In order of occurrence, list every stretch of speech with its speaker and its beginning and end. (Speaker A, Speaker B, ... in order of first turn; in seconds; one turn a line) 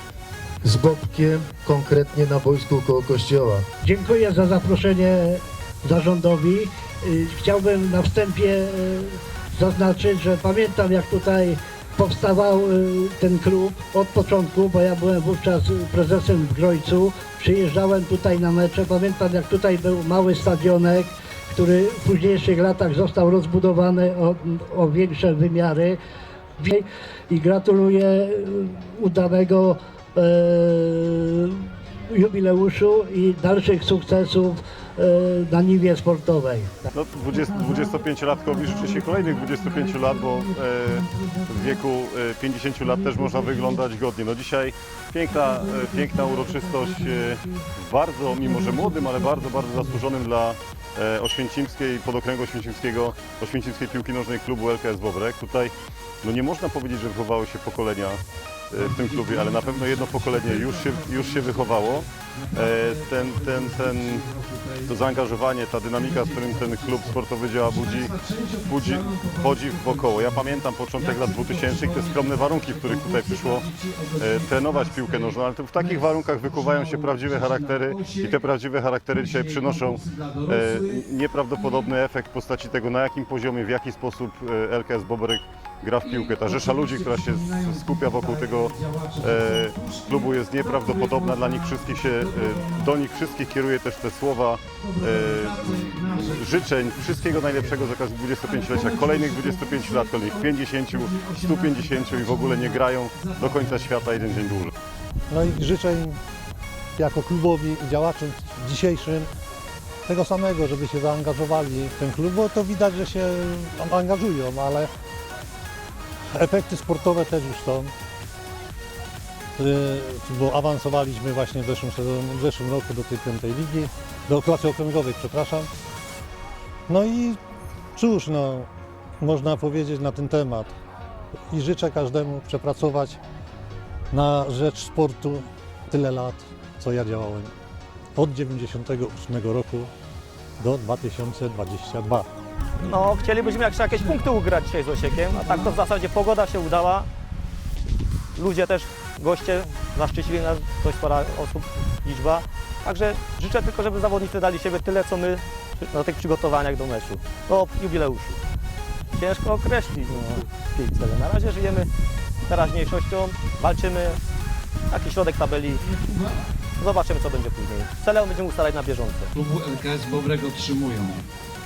Speaker A: 0.6-3.7
Speaker B: 3.8-26.0
Speaker B: 26.6-36.9
Speaker C: 36.9-58.2
Speaker C: 58.7-64.2
Speaker D: 58.7-65.4
Speaker C: 64.8-68.1
Speaker D: 65.9-78.4
Speaker C: 68.6-104.7
Speaker D: 79.1-81.9
Speaker D: 86.0-93.0
Speaker D: 94.8-97.9
Speaker D: 98.4-104.5
Speaker E: 105.3-106.2
Speaker E: 107.0-109.3
Speaker E: 110.0-114.9
Speaker E: 116.3-117.9
Speaker E: 119.6-125.7
Speaker E: 126.9-127.4
Speaker E: 127.9-130.8
Speaker E: 131.5-133.2
Speaker E: 134.1-137.5
Speaker E: 138.1-139.9
Speaker E: 140.6-142.3
Speaker F: 142.8-147.1
Speaker D: 143.2-144.2
Speaker D: 145.3-145.8
Speaker F: 148.3-158.4
Speaker F: 159.1-161.9
Speaker F: 162.5-164.2
Speaker F: 164.9-165.8
Speaker D: 165.9-166.4
Speaker F: 166.8-169.3
Speaker D: 169.3-171.2